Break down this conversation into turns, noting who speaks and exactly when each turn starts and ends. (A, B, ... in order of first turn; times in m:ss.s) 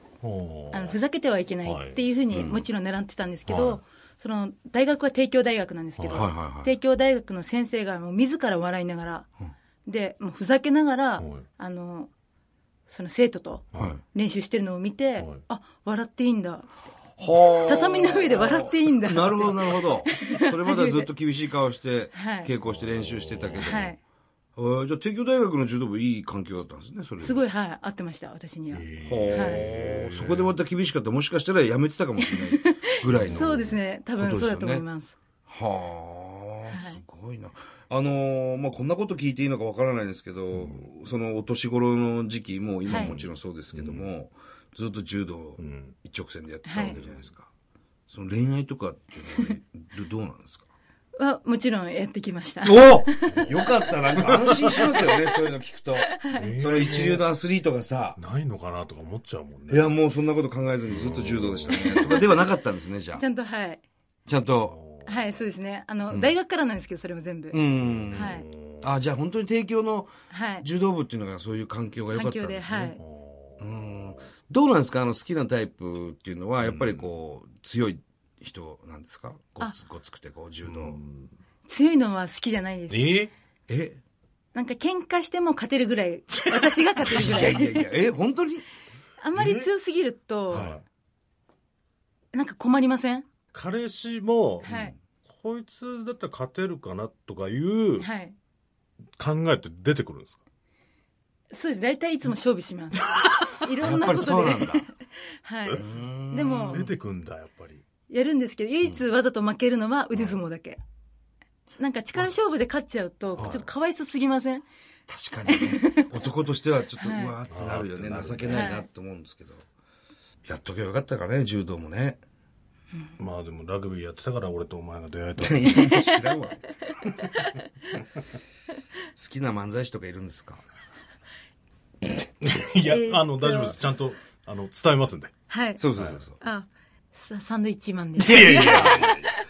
0:00.2-0:01.0 A
0:00.7-0:09.3 B
0:01.6-0:02.0 A
0:02.3-0:02.6 C
0:03.5-0:03.8 A
0:06.0-0:06.3 A
0:06.1-0:06.7 C
0:09.8-0:12.1 B
0:11.2-0:11.4 A
0:12.9-0:16.7 B
0:13.8-0:14.0 C
0:17.2-0:23.9 C
0:17.4-0:21.1 B
0:22.1-0:22.5 B
0:22.6-0:23.9 A
0:23.6-0:24.0 B
0:24.6-0:27.4 C
0:27.2-0:29.7 B
0:28.7-0:30.6 A
0:29.0-0:34.8 C
0:32.2-0:35.2 B
0:33.0-0:33.8 A
0:35.5-0:47.5 C
0:36.7-0:37.0 B
0:40.5-0:40.9 A
0:42.9-0:44.1 A
0:42.9-0:43.2 B
0:45.6-0:46.0 A
0:46.6-0:47.0 B
0:46.8-0:47.3 A
0:48.1-0:50.7 C
0:51.2-0:53.8 B
0:52.6-0:58.2 C
0:54.2-0:55.0 A
0:56.2-0:56.5 B
0:56.3-0:57.2 A
0:58.2-0:59.9 A
0:59.7-1:03.2 C
1:00.9-1:02.3 A
1:01.7-1:02.4 B
1:03.2-1:03.8 B
1:04.3-1:04.8 C
1:04.5-1:05.3 A
1:05.0-1:07.6 B
1:06.1-1:06.4 C
1:07.5-1:13.0 C
1:07.8-1:09.0 A
1:08.1-1:08.4 B
1:10.3-1:10.7 B
1:12.1-1:13.0 B
1:13.0-1:14.3 A
1:13.6-1:21.0 C
1:16.6-1:17.1 A
1:20.6-1:21.3 A
1:21.7-1:23.1 B
1:22.9-1:23.3 A
1:23.7-1:24.0 C
1:24.5-1:28.0 B
1:26.3-1:27.4 A
1:27.0-1:28.6 C
1:29.2-1:30.7 B
1:29.4-1:29.7 A
1:30.5-1:30.8 A
1:30.5-1:30.8 C
1:32.3-1:33.3 B
1:33.5-1:38.1 A
1:34.6-1:34.9 B
1:34.6-1:35.0 C
1:38.0-1:38.4 B
1:39.2-1:40.4 A
1:41.5-1:44.9 B
1:43.8-1:44.9 C
1:45.4-1:46.9 B
1:45.7-1:46.9 C
1:46.7-1:47.8 A
1:48.1-1:50.8 B
1:51.8-1:54.6 B
1:53.4-1:53.7 C
1:55.1-1:59.7 C
1:55.5-1:56.3 B
1:57.0-1:57.4 B
1:57.5-1:58.7 A
1:58.5-1:58.9 B
2:00.4-2:02.2 C
2:02.9-2:03.2 B
2:03.2-2:06.0 A
2:05.4-2:06.6 C
2:07.2-2:07.7 B
2:09.2-2:10.6 C
2:12.4-2:15.3 A
2:12.9-2:13.8 B
2:15.5-2:15.8 B
2:15.8-2:16.4 C
2:16.0-2:16.2 A
2:16.4-2:19.3 B
2:18.2-2:19.2 C
2:18.2-2:19.3 A